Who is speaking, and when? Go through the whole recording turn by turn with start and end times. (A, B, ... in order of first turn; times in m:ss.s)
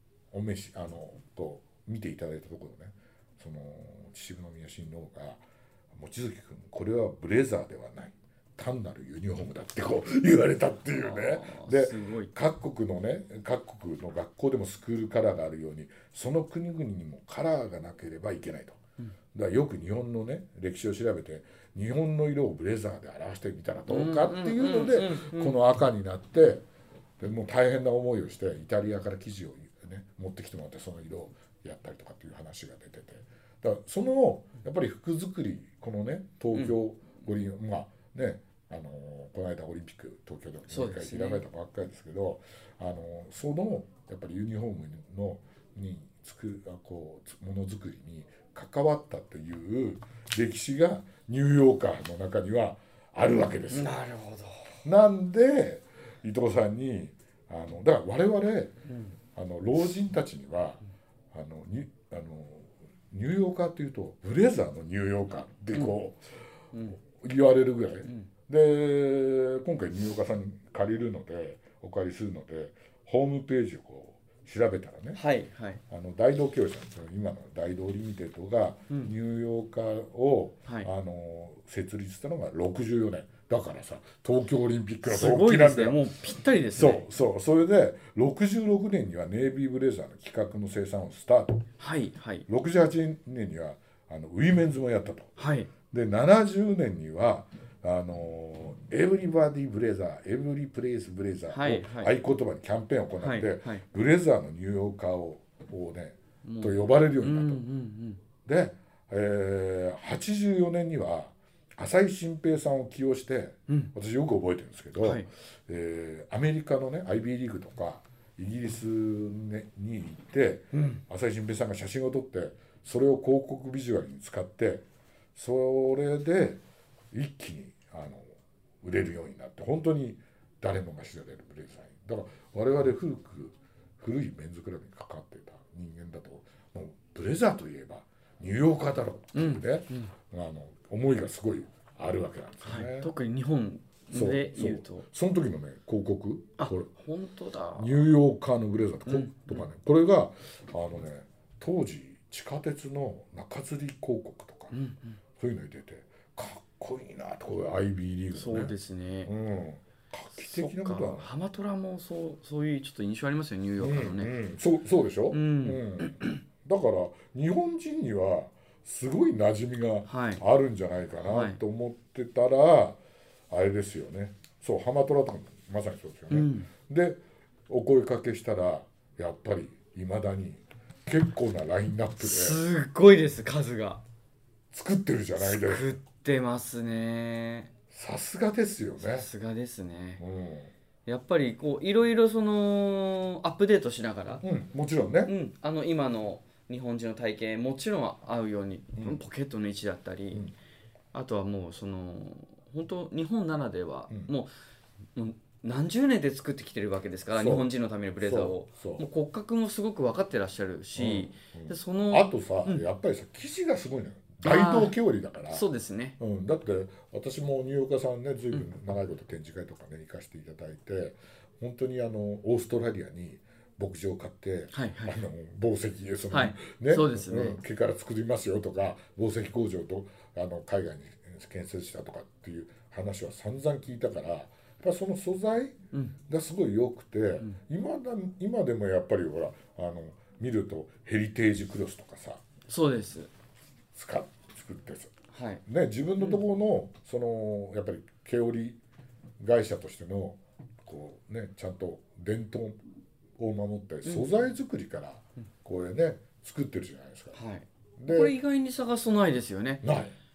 0:00.3-0:18.8 A
0:10.9-0:12.3 B
0:19.3-0:26.6 A
0:23.9-0:25.6 B
0:27.2-0:53.9 A
0:40.7-0:41.4 B
0:53.7-0:54.8 B
0:54.8-0:58.8 A
0:58.9-0:59.2 B
0:59.3-1:06.2 A
1:07.0-1:15.2 A
1:15.1-1:15.8 B
1:15.9-1:26.1 A
1:25.0-1:27.0 B
1:26.7-1:31.6 A
1:31.8-1:32.4 B
1:32.5-1:35.4 A
1:35.4-1:35.7 B
1:35.9-1:47.6 A
1:41.5-1:42.1 B
1:43.2-1:43.8 B
1:46.4-1:48.2 B
1:48.4-2:04.8 A
1:55.0-1:55.2 B
2:00.7-2:01.0 B
2:05.3-2:23.1 A
2:19.3-2:20.1 B
2:22.6-2:25.0 B
2:24.1-2:26.9 A
2:26.6-2:28.1 B
2:27.8-2:34.8 A
2:29.0-2:29.6 B
2:34.7-2:35.2 B
2:35.4-2:38.7 A
2:38.3-2:39.3 B
2:39.2-2:41.3 A
2:40.3-2:44.3 B
2:43.8-2:53.0 A
2:45.3-2:46.4 B
2:50.1-2:50.4 B
2:51.2-2:51.6 B
2:53.5-3:02.6 A
2:56.3-2:56.7 B
3:02.2-3:04.0 B
3:04.7-3:05.9 A
3:05.4-3:07.7 B
3:07.9-3:09.3 A
3:09.0-3:10.2 B
3:10.2-3:10.7 A
3:11.0-3:14.4 B
3:14.4-3:15.3 A
3:15.2-3:20.4 B
3:21.1-3:24.5 B
3:25.1-3:32.8 B
3:27.3-3:27.7 A
3:28.2-3:29.0 A
3:31.0-3:35.6 A
3:34.4-3:36.2 B
3:36.2-4:02.4 A
3:44.7-3:45.2 B
3:46.3-3:47.6 B
4:02.7-4:03.3 B
4:03.9-4:05.1 A
4:05.3-4:05.6 B
4:05.6-4:08.8 A
4:06.2-4:06.4 B
4:09.4-4:12.8 A
4:13.4-4:17.4 A
4:14.0-4:14.3 B
4:17.3-4:19.8 B
4:18.0-4:18.4 A
4:19.8-4:20.1 A